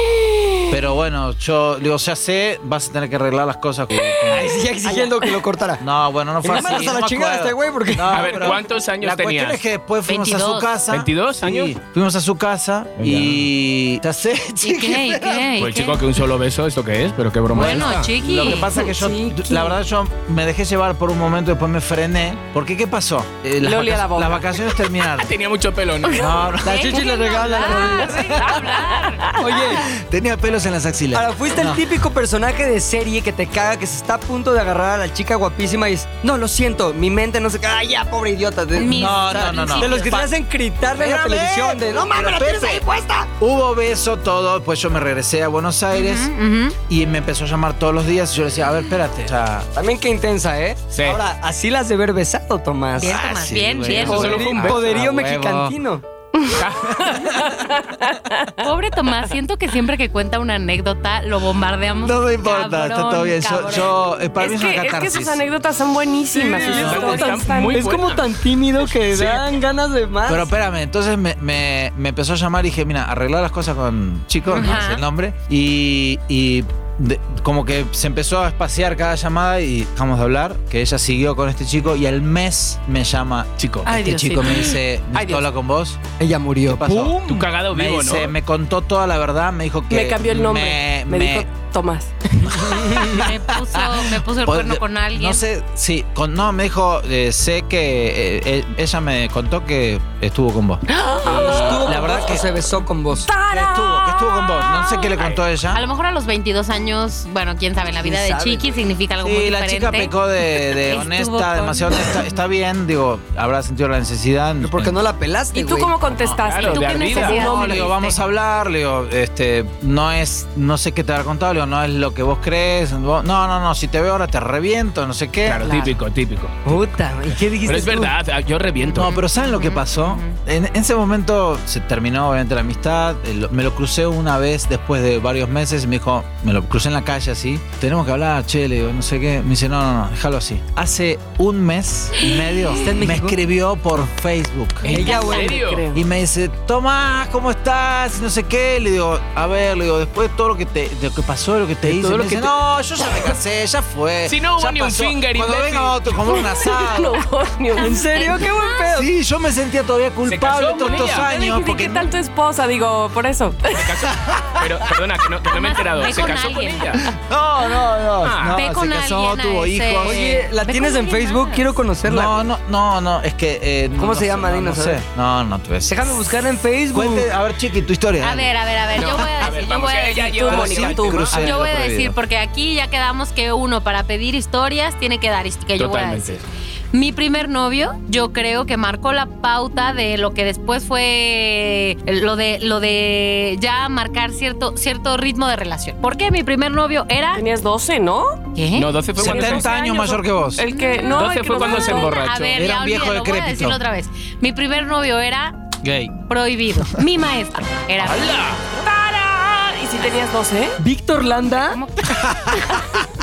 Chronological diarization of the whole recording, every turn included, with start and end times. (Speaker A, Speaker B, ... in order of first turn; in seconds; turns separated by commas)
Speaker A: 0.1-0.6, Speaker B: 0.7-5.1, Speaker A: 4.2-5.8, Speaker B: 5.8-15.5, Speaker A: 6.4-8.5, Speaker C: 8.1-9.6, Speaker D: 10.1-10.7, Speaker C: 10.9-11.7, Speaker C: 13.0-13.4, Speaker D: 14.6-16.0, Speaker C: 15.6-18.1, Speaker B: 17.5-25.3, Speaker D: 17.5-18.7, Speaker E: 18.4-19.8, Speaker E: 23.6-24.5, Speaker C: 25.0-26.4, Speaker B: 26.1-27.1, Speaker A: 26.6-28.4, Speaker D: 26.6-29.4, Speaker E: 27.2-29.5, Speaker B: 28.1-28.5, Speaker A: 29.4-29.9, Speaker B: 29.8-31.8, Speaker A: 31.1-43.3, Speaker D: 38.7-40.1, Speaker B: 38.8-40.3, Speaker B: 40.9-42.9, Speaker B: 43.4-46.3, Speaker D: 45.9-46.8, Speaker B: 46.9-49.7, Speaker A: 49.7-53.2, Speaker C: 50.9-51.2, Speaker D: 53.0-54.3, Speaker B: 53.0-55.8, Speaker C: 53.9-55.1, Speaker A: 54.0-56.0, Speaker E: 56.4-58.6, Speaker C: 56.5-57.3, Speaker D: 58.6-63.9, Speaker B: 62.0-65.4, Speaker E: 64.4-67.9, Speaker A: 66.3-70.5, Speaker C: 66.6-69.4, Speaker B: 66.7-67.3, Speaker B: 70.3-86.0, Speaker D: 74.5-75.0, Speaker C: 83.6-83.9, Speaker D: 83.8-84.8, Speaker C: 85.1-85.4, Speaker A: 86.2-87.5, Speaker B: 86.6-91.5, Speaker C: 87.2-88.3, Speaker E: 89.9-92.1, Speaker A: 92.4-93.2, Speaker B: 92.5-102.5, Speaker D: 93.1-95.4, Speaker E: 100.9-102.1, Speaker A: 101.2-103.3, Speaker E: 103.2-105.2, Speaker B: 103.5-105.8, Speaker D: 105.7-110.1, Speaker A: 108.0-108.7, Speaker B: 109.2-115.0, Speaker D: 110.7-112.2, Speaker A: 114.6-115.9, Speaker E: 115.5-117.9, Speaker C: 116.2-117.5, Speaker D: 116.6-118.2, Speaker B: 117.3-125.7, Speaker C: 125.4-129.1, Speaker D: 125.7-125.9, Speaker A: 126.6-128.1, Speaker B: 128.9-145.0, Speaker D: 128.9-130.4, Speaker A: 142.7-143.4, Speaker E: 144.8-146.0, Speaker A: 144.9-145.6, Speaker C: 144.9-145.9, Speaker B: 145.9-157.2, Speaker C: 151.8-152.5, Speaker C: 154.3-156.2, Speaker E: 156.3-158.2, Speaker D: 157.8-158.9, Speaker A: 157.8-159.1, Speaker B: 158.9-162.1, Speaker C: 160.2-161.3, Speaker E: 161.1-163.8, Speaker C: 163.7-167.0, Speaker B: 164.1-164.9, Speaker D: 165.5-167.0, Speaker B: 167.0-170.5, Speaker C: 168.2-168.6, Speaker D: 168.5-171.7, Speaker A: 170.0-172.4, Speaker B: 172.0-176.1, Speaker A: 173.9-175.0, Speaker A: 175.8-177.3, Speaker B: 176.9-178.5, Speaker D: 178.2-197.4, Speaker C: 179.0-181.6, Speaker E: 180.3-181.3, Speaker B: 180.5-182.2, Speaker C: 185.8-186.4, Speaker E: 197.3-198.4, Speaker D: 198.6-198.9, Speaker C: 198.7-199.7, Speaker B: 199.2-200.6, Speaker E: 199.2-202.4, Speaker D: 200.7-205.6, Speaker C: 201.1-202.6, Speaker B: 202.6-203.8, Speaker B: 205.8-206.1, Speaker D: 206.2-208.6, Speaker C: 208.0-208.6, Speaker E: 208.6-210.8, Speaker A: 210.8-211.8, Speaker D: 211.5-212.3, Speaker B: 212.0-213.1